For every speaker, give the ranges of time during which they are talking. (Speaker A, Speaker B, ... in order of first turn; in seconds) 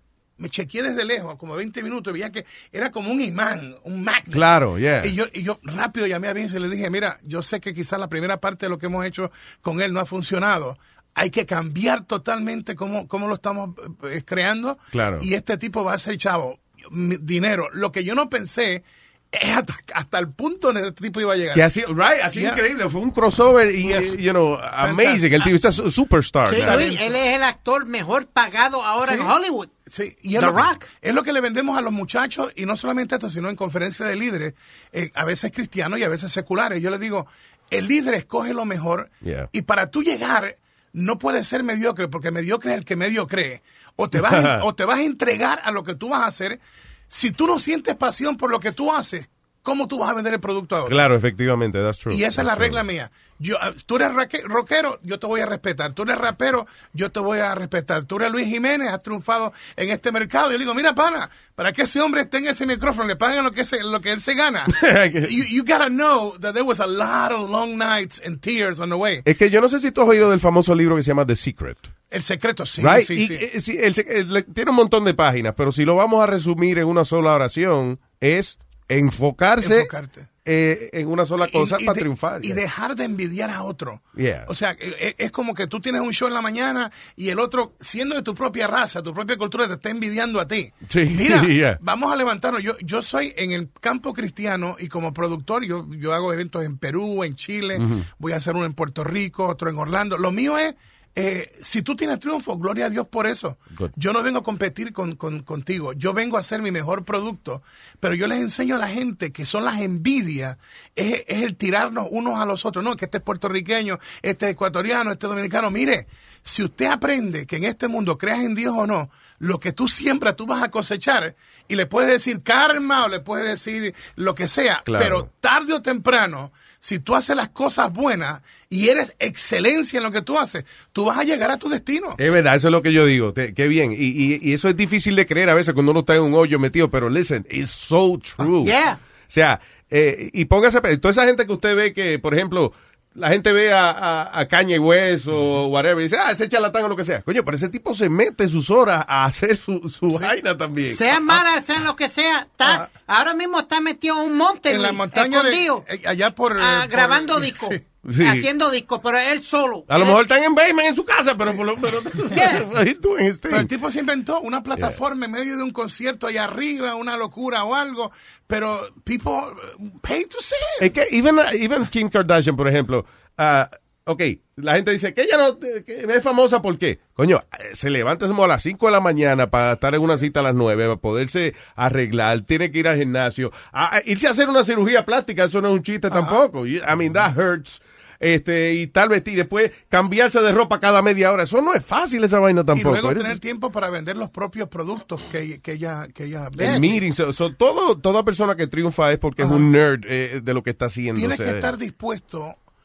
Speaker A: 0.4-21.7, 22.3-22.6, 23.8-24.2, 24.8-25.5, 26.6-27.1, 29.0-29.3, 29.9-51.0, 52.1-69.3, 72.1-73.5, 79.6-80.3, 81.4-132.2, 154.7-157.8, 161.4-161.8, 163.5-170.9, 186.1-186.4, 192.7-197.0, 199.4-199.7, 201.1-202.6
Speaker B: 4.3-5.2, 14.9-15.3, 21.5-26.9, 39.2-39.5, 44.2-44.6, 50.9-52.9, 64.7-65.4, 69.2-71.9, 72.8-79.9, 80.5-82.6, 84.2-84.5, 90.9-91.8, 97.8-98.1, 124.9-125.3, 132.2-138.8, 139.3-151.4, 158.1-158.5, 159.9-163.7, 164.8-165.0, 170.8-193.4, 196.6-201.7
Speaker C: 26.5-29.8, 30.4-30.8, 138.4-139.0, 150.9-155.8, 156.6-160.2, 162.3-162.7